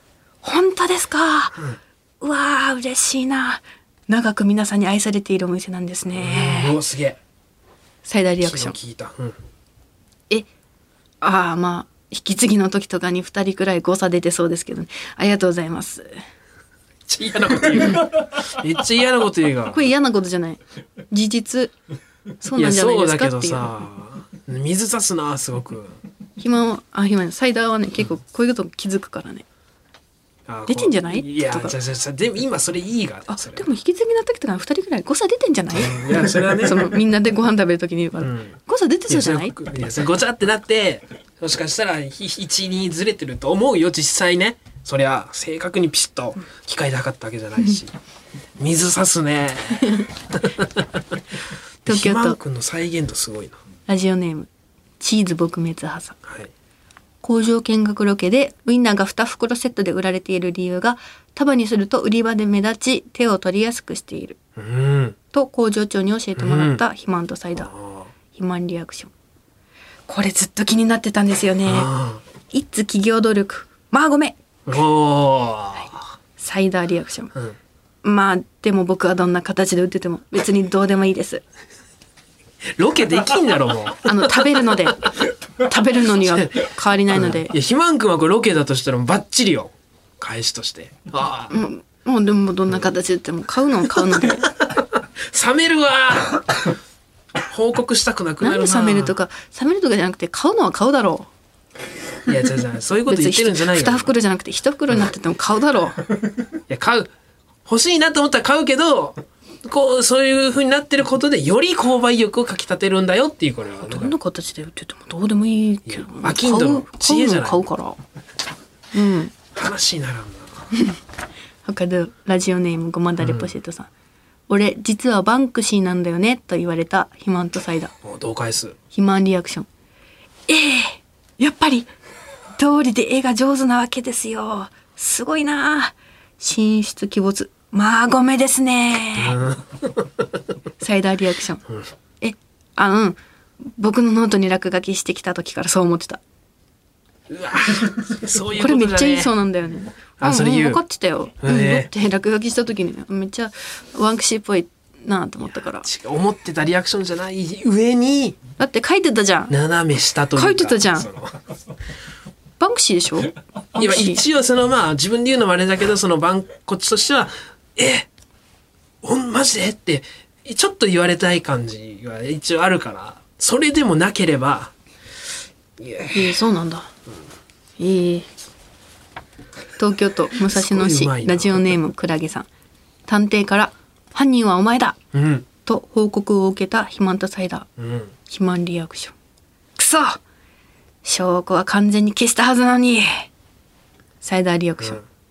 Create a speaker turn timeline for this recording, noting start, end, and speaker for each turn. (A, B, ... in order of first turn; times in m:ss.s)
0:00.4-0:01.6 A
0:02.2-0:06.8 A
0:06.1-0:07.2 B
0:08.0-0:08.8 A
0:08.4-0:09.4 B
0:11.2-0:16.2 A
0:17.1-0:19.8 B
0:19.6-0:21.7 A
0:22.4-0:23.8 A
0:22.6-0:26.0 B
0:26.4-0:29.4 A
0:30.5-0:33.7 B
0:30.7-0:31.8 A
0:33.3-0:39.7 A
0:35.7-0:37.0 B
0:38.2-0:38.6 B
0:39.1-0:47.9 B
0:48.6-0:50.7 B
0:51.8-0:53.6 B
0:51.9-0:52.4 A
0:53.9-0:54.5 A
0:55.0-0:56.2 A
0:56.3-0:56.5 B
0:57.2-1:04.4 A
1:04.6-1:05.2 B
1:05.3-1:07.7 A
1:06.4-1:06.8 B
1:07.6-1:08.1 B
1:08.3-1:09.1 A
1:10.1-1:11.9 A
1:11.7-1:12.2 B
1:12.5-1:14.4 A
1:14.7-1:16.1 B
1:16.4-1:17.3 A
1:18.0-1:21.4 A
1:22.8-1:24.3 B
1:24.0-1:25.0 A
1:25.6-1:27.5 A
1:27.2-1:31.6 B
1:31.5-1:34.5 A
1:34.6-1:36.6 B
1:37.4-1:39.1 B
1:38.4-1:41.3 A
1:42.3-1:44.1 B
1:43.1-1:46.0 A
1:46.7-1:47.1 B
1:47.7-1:54.2 B
1:53.8-1:58.0 A
1:55.9-1:57.6 B
1:58.9-1:59.3 A
1:59.5-2:00.7 B
2:00.7-2:01.0 A
2:01.6-2:03.9 A
2:03.2-2:03.5 B
2:04.5-2:07.9 A
2:08.0-2:08.8 B
2:08.9-2:09.7 A
2:10.5-2:11.9 A
2:12.6-2:19.4 A
2:19.2-2:20.0 B
2:20.8-2:21.6 A
2:22.2-2:26.2 A
2:27.3-2:29.3 B
2:28.6-2:35.9 A
2:30.2-2:30.8 B
2:31.4-2:31.9 B
2:35.8-2:38.4 B
2:38.6-2:39.6 A
2:39.5-2:41.4 B
2:40.3-2:41.1 A
2:42.6-2:44.2 A
2:43.8-2:48.1 B
2:49.0-2:54.7 B
2:55.8-2:56.3 B
2:56.1-2:56.9 A
2:57.8-2:58.3 A
2:59.8-3:02.5 A
3:00.5-3:01.7 B
3:03.1-3:05.0 A
3:05.1-3:05.5 B
3:05.6-3:07.7 A
3:07.8-3:08.1 B
3:08.3-3:09.2 A
3:09.8-3:10.2 A
3:11.0-3:13.3 A
3:14.2-3:15.0 A